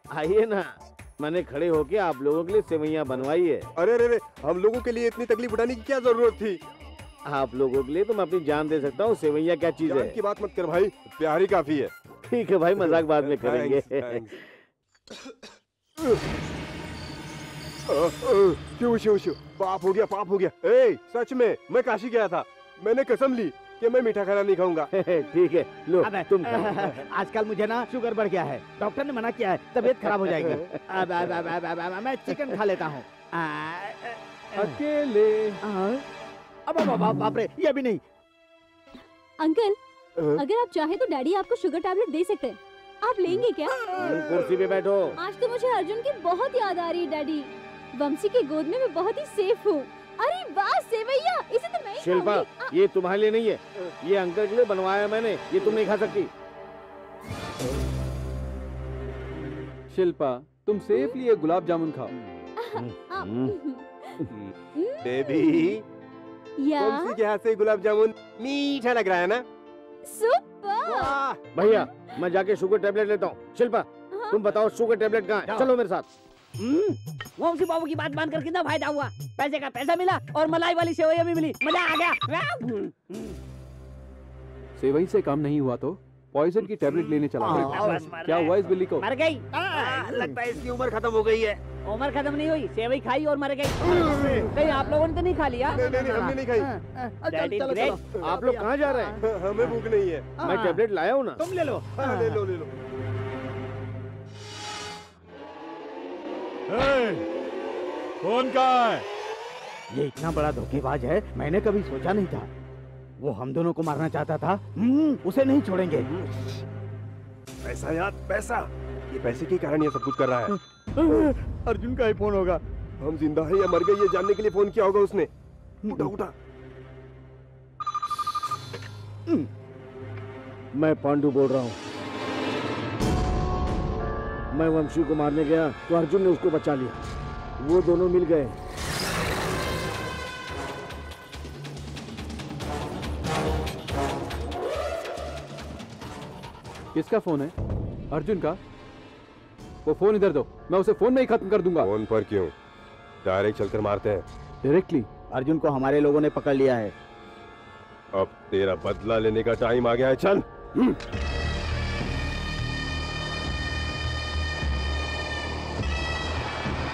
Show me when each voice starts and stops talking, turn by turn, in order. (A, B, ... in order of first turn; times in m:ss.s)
0:00.1-0:03.7 A
0:03.8-0:06.6 B
0:07.3-0:10.2 A
0:09.8-0:11.9 B
0:12.2-0:14.4 A
0:12.8-0:14.3 B
0:17.9-0:24.9 B
0:24.9-0:27.0 A
0:26.0-0:34.7 C
0:30.2-0:30.8 A
0:34.6-0:35.6 D
0:35.6-0:36.0 C
0:36.7-0:38.0 C
0:39.4-0:39.8 E
0:40.3-0:43.9 E
0:44.0-0:45.2 A
0:44.0-0:44.5 B
0:45.2-0:52.8 E
0:52.0-0:56.3 A
0:59.9-1:02.1 D
1:02.6-1:05.8 E
1:02.8-1:03.5 A
1:04.3-1:05.8 B
1:06.6-1:07.2 E
1:06.8-1:09.4 B
1:10.0-1:12.0 E
1:10.9-1:11.5 B
1:11.5-1:16.1 A
1:14.1-1:14.4 E
1:17.4-1:22.9 F
1:24.8-1:29.1 D
1:27.4-1:28.1 C
1:27.4-1:30.4 F
1:29.5-1:31.6 C
1:31.8-1:36.2 F
1:33.9-1:34.5 C
1:34.1-1:34.4 B
1:35.7-1:36.7 B
1:35.7-1:36.8 C
1:37.3-1:38.1 F
1:37.3-1:39.1 C
1:38.2-1:39.1 A
1:39.2-1:40.4 B
1:40.4-1:40.8 C
1:40.4-1:41.4 A
1:41.4-1:42.4 C
1:42.0-1:42.7 B
1:49.9-1:52.5 C
1:53.2-1:56.1 C
1:57.6-2:00.5 B
2:01.0-2:02.6 C
2:03.0-2:05.3 B
2:05.8-2:06.3 B
2:10.7-2:11.8 A
2:14.5-2:17.0 A
2:17.6-2:18.6 A
2:27.0-2:27.5 D
2:28.1-2:28.6 D
2:29.8-2:31.9 D
2:31.8-2:32.5 B
2:33.2-2:34.3 B
2:34.6-2:35.1 D
2:35.3-2:36.9 C
2:38.1-2:41.0 B